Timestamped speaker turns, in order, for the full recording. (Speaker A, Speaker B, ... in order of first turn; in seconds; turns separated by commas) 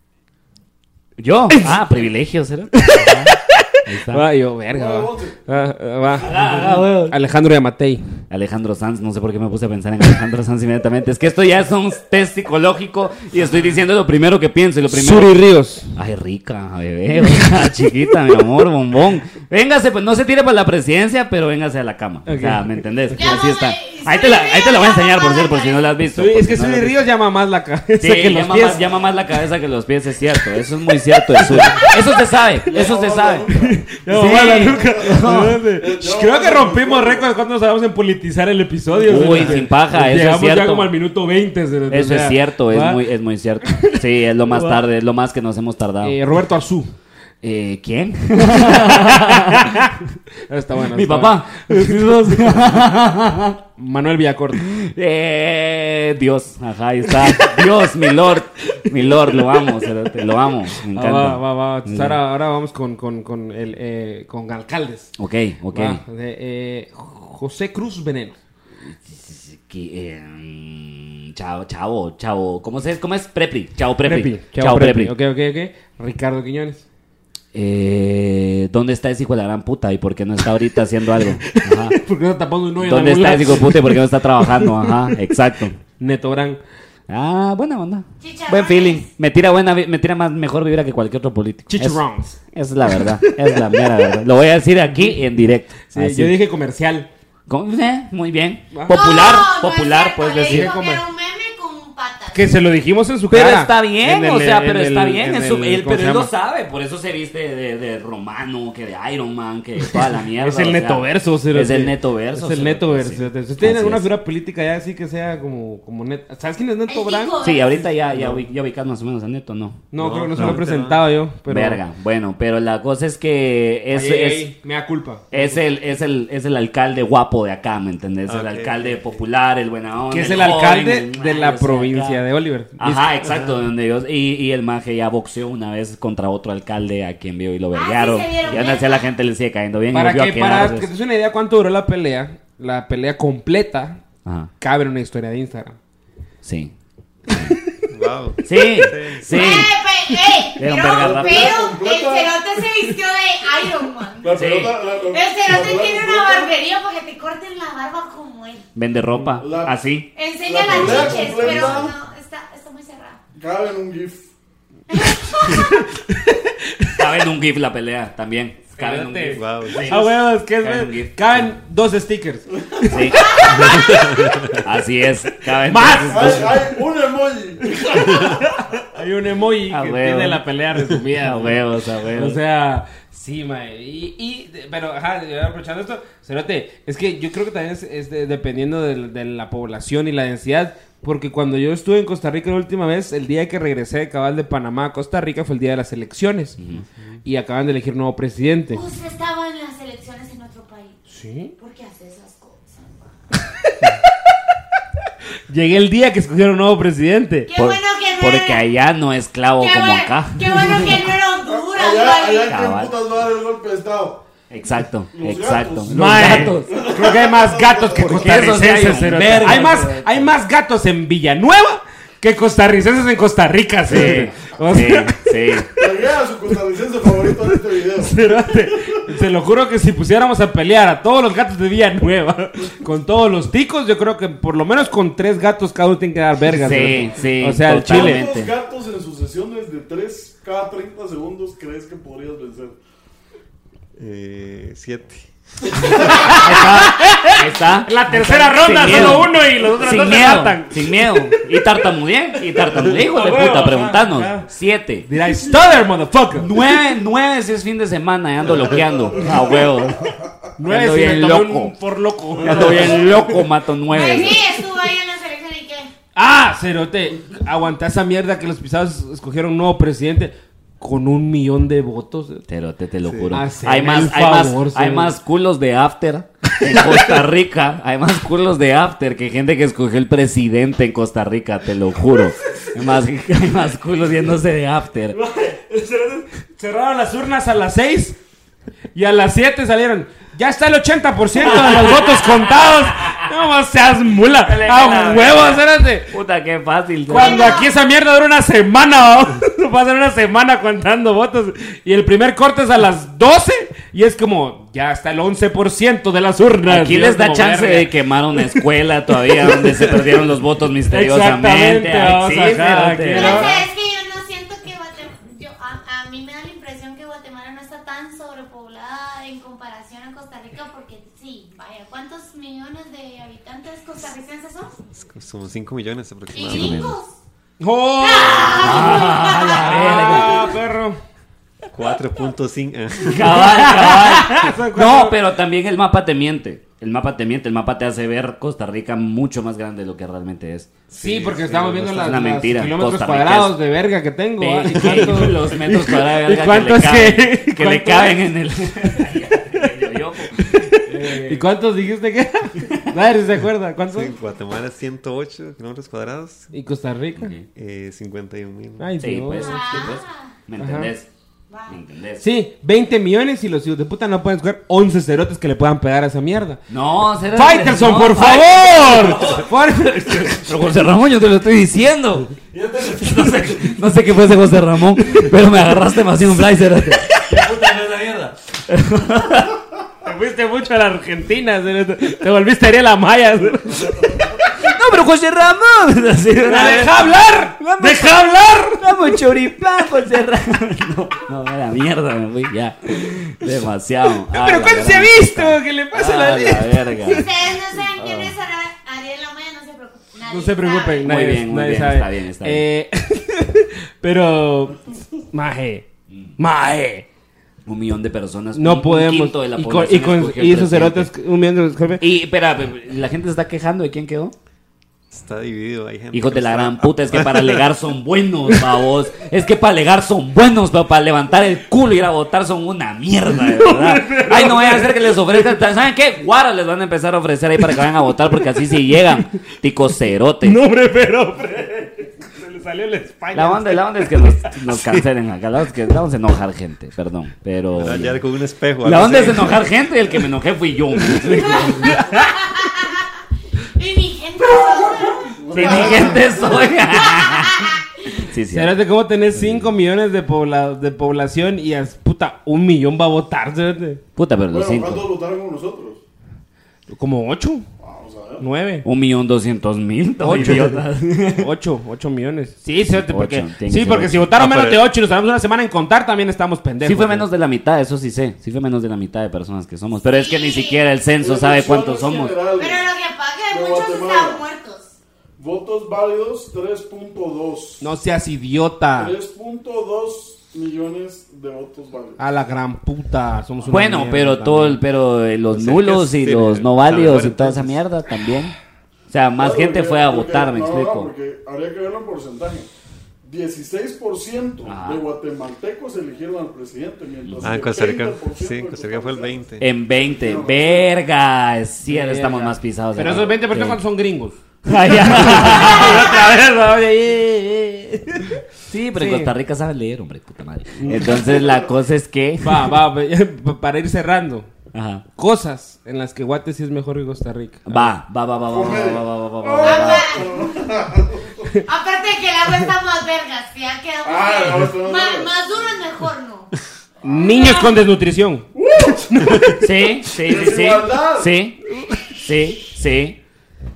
Speaker A: 1.2-4.2, Speaker B: 2.8-8.0, Speaker C: 4.7-5.4, Speaker A: 6.2-7.2, Speaker A: 8.3-15.3, Speaker B: 14.9-15.9, Speaker A: 15.9-27.0, Speaker B: 22.2-23.3, Speaker D: 23.1-25.9, Speaker B: 26.1-28.8, Speaker A: 28.0-33.5, Speaker B: 31.4-31.8, Speaker C: 32.7-37.3, Speaker B: 33.5-43.0, Speaker A: 34.1-35.6, Speaker A: 39.0-40.9, Speaker A: 41.9-46.2, Speaker B: 43.7-44.8, Speaker B: 46.0-46.9, Speaker A: 47.4-49.9, Speaker B: 48.5-52.8, Speaker A: 50.9-53.6, Speaker B: 53.8-54.7, Speaker A: 54.5-62.2, Speaker B: 57.2-57.6, Speaker B: 58.7-59.9, Speaker B: 60.9-65.1, Speaker A: 65.2-66.0, Speaker B: 65.7-68.4, Speaker A: 68.8-75.1, Speaker B: 74.0-76.8, Speaker A: 77.5-82.0, Speaker B: 81.2-85.2, Speaker A: 82.8-85.8, Speaker B: 86.0-86.6, Speaker A: 87.1-96.3, Speaker D: 88.2-89.1, Speaker B: 91.7-94.1, Speaker B: 94.9-95.2, Speaker B: 95.9-97.1, Speaker A: 97.5-100.7, Speaker B: 98.7-99.0, Speaker D: 98.9-102.5, Speaker B: 100.5-101.0, Speaker B: 102.3-106.3, Speaker A: 103.3-114.1, Speaker B: 109.8-117.3, Speaker D: 116.9-117.9, Speaker A: 117.4-120.6, Speaker E: 118.1-118.4, Speaker B: 119.9-121.8, Speaker E: 120.0-121.1, Speaker A: 121.5-124.5, Speaker B: 123.9-125.6, Speaker A: 125.3-132.2, Speaker E: 128.2-129.1, Speaker B: 130.1-133.1, Speaker A: 132.8-140.9, Speaker E: 133.2-133.6, Speaker D: 137.7-139.1, Speaker B: 139.9-144.0, Speaker A: 144.2-144.5, Speaker B: 144.6-145.8, Speaker A: 146.4-146.7, Speaker A: 147.3-147.5, Speaker B: 147.3-147.8, Speaker E: 147.9-149.7, Speaker A: 148.4-149.7, Speaker B: 148.5-148.8, Speaker D: 149.3-158.7, Speaker B: 150.1-150.4, Speaker A: 150.6-151.6, Speaker C: 150.8-152.3, Speaker C: 154.2-156.5, Speaker A: 154.3-154.8, Speaker A: 158.7-160.1, Speaker C: 159.4-159.8, Speaker D: 160.1-163.2, Speaker C: 160.4-161.9, Speaker A: 160.7-161.8, Speaker C: 163.3-164.3, Speaker D: 164.9-165.6, Speaker B: 165.3-167.0, Speaker A: 166.9-171.4, Speaker B: 168.8-174.6, Speaker E: 169.3-170.1, Speaker A: 172.9-174.1, Speaker D: 173.2-174.0, Speaker E: 173.6-174.6, Speaker A: 174.6-176.6, Speaker B: 175.5-176.8, Speaker C: 176.0-178.4, Speaker B: 177.6-196.6, Speaker A: 179.7-180.4, Speaker A: 181.2-182.4, Speaker A: 196.6-196.8, Speaker E: 196.8-197.1, Speaker B: 197.2-198.8, Speaker D: 198.7-201.0, Speaker B: 201.1-201.5, Speaker D: 201.6-203.2, Speaker B: 203.6-204.0, Speaker B: 205.5-207.5, Speaker D: 207.5-208.6, Speaker A: 207.6-210.9, Speaker D: 209.6-212.5, Speaker C: 211.5-214.2, Speaker A: 212.5-212.9, Speaker A: 214.5-216.9, Speaker C: 215.1-218.6, Speaker B: 215.9-225.6, Speaker A: 217.9-220.3, Speaker A: 223.8-225.7, Speaker C: 225.8-228.3, Speaker B: 227.9-238.2, Speaker A: 236.5-238.5, Speaker C: 237.7-242.8, Speaker E: 244.0-245.3, Speaker B: 245.8-251.6, Speaker A: 245.9-255.1, Speaker B: 252.7-254.5, Speaker B: 255.1-256.5, Speaker A: 256.3-261.8, Speaker B: 260.6-263.4, Speaker A: 262.4-264.4, Speaker D: 263.9-265.9, Speaker B: 266.1-272.4, Speaker A: 272.5-285.2, Speaker E: 273.1-273.4, Speaker B: 273.3-275.1, Speaker B: 276.6-277.1, Speaker B: 285.1-288.2, Speaker B: 288.9-296.1, Speaker A: 291.4-293.2, Speaker A: 294.4-297.6, Speaker B: 297.1-310.2, Speaker D: 297.1-297.7, Speaker A: 306.6-313.6, Speaker B: 310.9-313.5, Speaker D: 313.1-324.8, Speaker E: 324.9-326.9, Speaker D: 326.3-327.1, Speaker A: 326.4-327.0, Speaker B: 327.6-331.0, Speaker D: 328.0-330.5, Speaker A: 328.2-330.5, Speaker E: 331.7-333.7, Speaker A: 333.0-340.8, Speaker B: 333.1-335.2, Speaker E: 340.9-342.0, Speaker B: 341.0-349.7, Speaker A: 341.7-343.6, Speaker A: 344.4-351.4, Speaker B: 350.3-354.1, Speaker E: 353.9-356.5, Speaker B: 356.5-357.3, Speaker A: 357.1-357.5, Speaker E: 357.5-358.9, Speaker B: 358.8-359.9, Speaker A: 359.0-361.1, Speaker D: 359.4-360.3, Speaker B: 360.6-360.9, Speaker D: 361.5-361.8, Speaker A: 361.7-362.2, Speaker B: 362.2-366.6, Speaker A: 366.7-379.6, Speaker B: 367.2-370.5, Speaker B: 380.0-384.5, Speaker A: 384.6-397.3, Speaker B: 386.4-389.3, Speaker B: 394.3-397.3, Speaker D: 397.0-401.1, Speaker A: 397.8-398.3, Speaker B: 400.3-405.9, Speaker A: 401.0-402.6, Speaker B: 406.4-407.1, Speaker A: 407.6-411.1, Speaker B: 408.5-412.0, Speaker A: 412.0-414.3, Speaker E: 415.1-417.6, Speaker A: 416.1-430.6, Speaker B: 418.5-418.8, Speaker B: 423.3-425.4, Speaker B: 430.4-435.0, Speaker A: 433.3-438.2, Speaker E: 437.7-439.7, Speaker A: 438.8-442.0, Speaker B: 441.0-442.4, Speaker D: 441.4-443.1, Speaker D: 443.7-448.1, Speaker C: 445.3-446.7, Speaker A: 445.5-448.7, Speaker B: 445.6-446.1, Speaker B: 448.5-454.0, Speaker A: 449.3-449.7, Speaker A: 454.1-455.0, Speaker C: 454.5-456.0, Speaker B: 456.9-457.7, Speaker C: 457.8-458.4, Speaker B: 458.4-458.9, Speaker A: 458.8-461.5, Speaker B: 460.2-467.3, Speaker A: 462.8-464.8, Speaker A: 466.8-472.4, Speaker D: 470.0-470.8, Speaker C: 471.2-472.9, Speaker D: 472.6-475.0, Speaker C: 473.5-474.4, Speaker C: 475.4-477.8, Speaker B: 477.8-479.1, Speaker C: 478.9-482.2, Speaker B: 482.2-484.8, Speaker A: 483.7-488.6, Speaker E: 485.5-487.8, Speaker A: 489.1-491.1, Speaker C: 489.4-492.7, Speaker C: 493.2-499.4, Speaker A: 494.6-495.0, Speaker A: 497.2-497.6, Speaker E: 497.4-499.7, Speaker A: 499.6-503.8, Speaker C: 500.1-500.9, Speaker B: 501.8-509.3, Speaker A: 504.6-506.3, Speaker A: 508.7-512.8, Speaker B: 510.8-511.4, Speaker C: 511.1-511.7, Speaker B: 512.4-514.5, Speaker A: 514.7-515.0, Speaker B: 515.1-518.0, Speaker A: 517.6-520.3, Speaker C: 518.5-521.6, Speaker D: 519.6-520.7, Speaker D: 521.6-526.5, Speaker C: 524.0-525.3, Speaker B: 527.0-529.7, Speaker C: 527.0-527.4, Speaker D: 527.1-527.8, Speaker C: 528.5-529.5, Speaker A: 529.6-531.6, Speaker C: 530.1-531.3, Speaker B: 531.7-532.1, Speaker A: 532.1-533.2